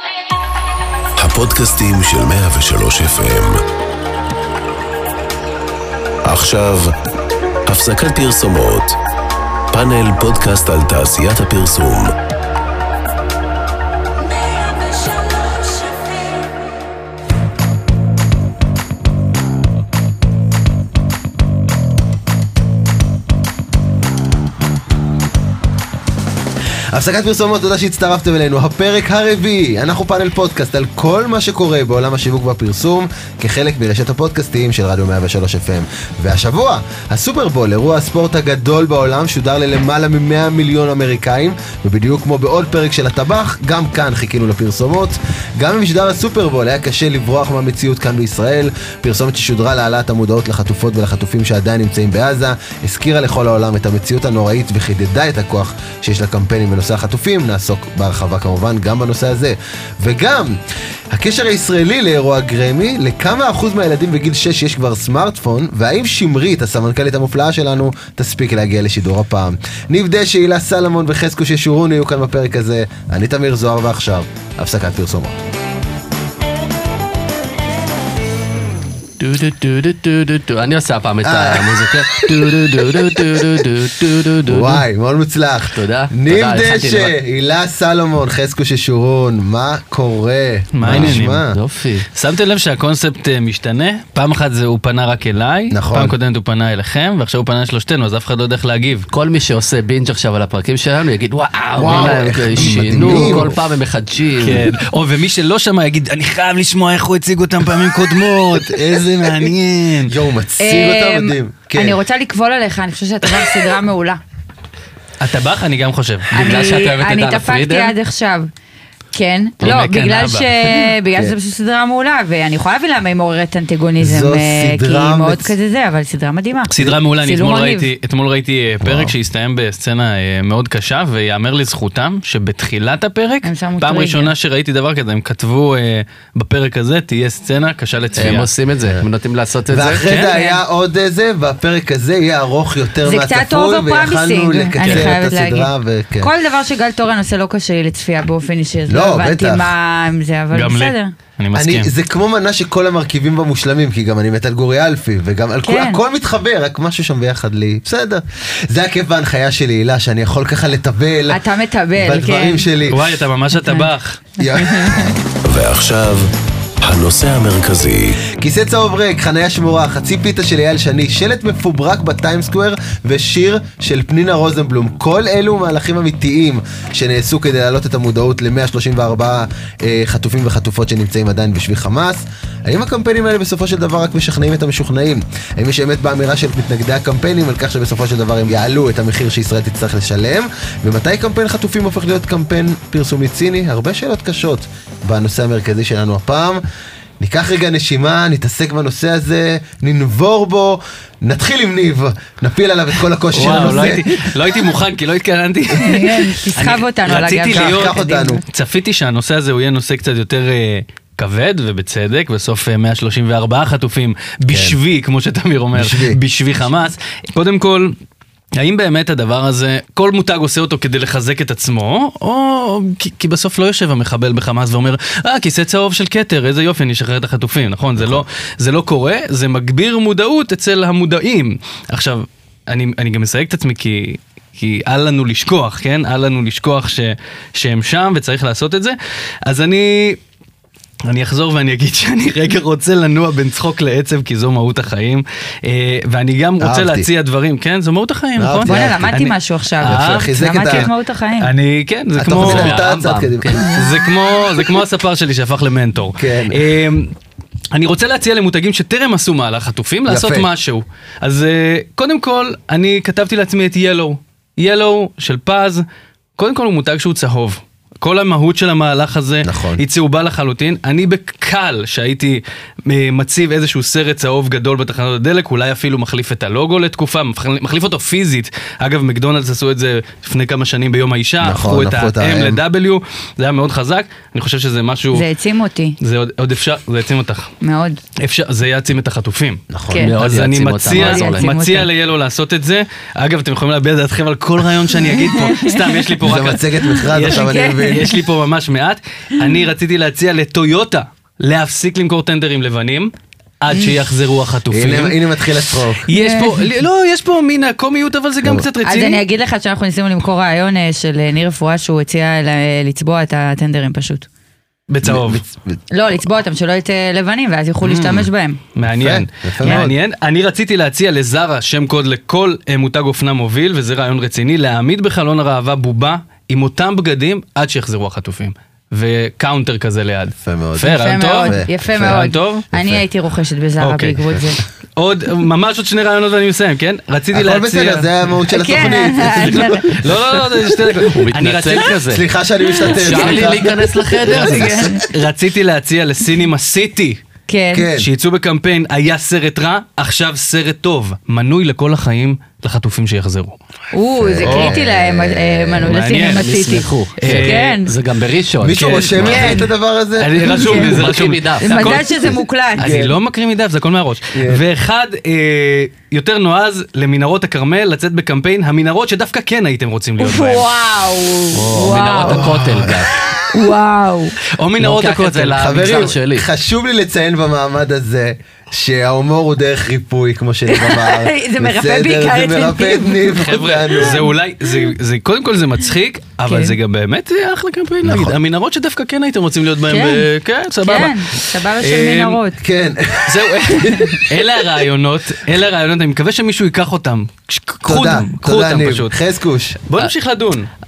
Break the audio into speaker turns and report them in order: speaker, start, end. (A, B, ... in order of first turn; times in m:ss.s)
0:01.2-0:03.6 A
0:06.2-0:06.9 A
0:07.7-0:09.0 A
0:09.7-0:12.1 A
0:26.9-1:00.6 B
1:01.1-1:15.4 B
1:19.2-1:24.8 C
1:21.2-1:23.7 B
1:24.4-1:31.6 B
1:25.7-1:27.1 C
1:30.7-1:31.4 D
1:30.8-1:32.1 C
1:32.1-1:39.1 D
1:35.7-1:36.2 B
1:39.1-1:44.7 C
1:41.8-1:43.6 B
1:42.6-1:43.4 D
1:44.4-1:50.1 D
1:48.5-1:49.5 B
1:50.1-1:52.0 B
1:50.6-1:54.2 E
1:55.2-1:56.4 D
1:56.3-1:57.9 C
1:56.3-1:58.5 E
1:59.1-2:07.9 E
1:59.6-2:00.8 D
2:04.0-2:05.5 B
2:06.7-2:18.5 D
2:08.8-2:09.1 B
2:13.4-2:14.3 E
2:18.2-2:20.0 C
2:19.7-2:26.3 B
2:20.1-2:20.4 D
2:20.1-2:20.6 E
2:23.0-2:31.1 E
2:24.8-2:25.1 D
2:28.9-2:29.7 B
2:30.5-2:31.9 D
2:31.5-2:41.4 B
2:35.6-2:36.0 E
2:41.3-2:42.6 E
2:41.9-2:43.0 B
2:42.9-2:44.2 D
2:44.4-2:45.2 B
2:44.4-2:45.1 E
2:45.4-2:46.3 A
2:46.8-2:48.2 A
2:48.3-3:16.6 B
3:17.2-3:24.3 B
3:23.3-3:37.9 D
3:23.4-3:23.7 E
3:25.7-3:28.4 E
3:27.4-3:28.4 B
3:34.5-3:34.8 B
3:35.7-3:36.2 B
3:38.6-4:00.2 D
3:48.0-3:48.2 B
4:01.0-4:12.8 D
4:06.6-4:07.1 B
4:08.4-4:09.2 B
4:08.6-4:11.5 E
4:09.8-4:10.9 B
4:12.2-4:13.8 B
4:12.4-4:13.8 C
4:13.6-4:17.1 D
4:16.2-4:16.6 B
4:17.7-4:25.8 D
4:20.1-4:20.5 B
4:26.4-4:45.2 D
4:29.4-4:29.8 B
4:41.4-4:42.6 B
4:45.1-4:46.0 E
4:46.0-4:47.5 D
4:47.6-4:48.0 E
4:48.2-5:05.2 D
4:49.7-4:50.1 B
4:50.0-4:51.5 C
4:50.9-4:51.9 E
4:55.1-4:56.0 E
4:56.2-4:58.1 B
4:56.9-4:58.1 E
5:04.7-5:06.1 B
5:06.0-5:09.2 D
5:06.1-5:06.6 E
5:08.8-5:14.3 E
5:14.9-5:15.4 D
5:15.0-5:15.8 B
5:15.9-5:18.6 E
5:17.8-5:18.2 B
5:18.8-5:32.6 D
5:18.9-5:20.0 B
5:19.6-5:19.9 E
5:30.4-5:33.0 B
5:31.0-5:34.6 E
5:33.8-5:38.1 D
5:37.3-5:40.4 B
5:38.5-5:39.9 E
5:39.4-5:41.9 D
5:41.0-5:42.2 C
5:42.1-5:45.1 B
5:42.8-5:43.4 E
5:42.9-5:44.9 C
5:44.3-5:45.0 E
5:45.0-5:47.2 D
5:47.5-5:47.9 E
5:47.7-5:48.1 B
5:47.9-5:53.6 D
5:53.9-5:57.9 E
5:54.2-5:55.9 B
5:54.4-5:54.8 D
5:55.8-5:57.8 D
5:56.1-5:59.5 C
5:58.6-6:00.9 B
5:58.7-5:59.6 D
5:59.1-5:59.6 E
6:00.2-6:10.7 D
6:00.6-6:01.0 E
6:00.7-6:02.0 C
6:01.6-6:03.0 E
6:02.8-6:03.1 B
6:04.3-6:04.6 B
6:10.2-6:12.5 E
6:11.5-6:13.1 C
6:12.2-6:13.1 B
6:13.5-6:14.4 E
6:14.5-6:16.1 D
6:14.8-6:16.5 C
6:15.6-6:24.3 B
6:20.7-6:23.4 E
6:23.4-6:32.4 D
6:24.0-6:24.3 E
6:26.5-6:26.7 E
6:28.0-6:28.4 B
6:29.9-6:30.3 E
6:30.8-6:32.6 E
6:32.6-6:34.2 B
6:33.2-6:39.1 D
6:33.8-6:34.2 E
6:37.8-6:39.8 B
6:39.8-6:40.7 D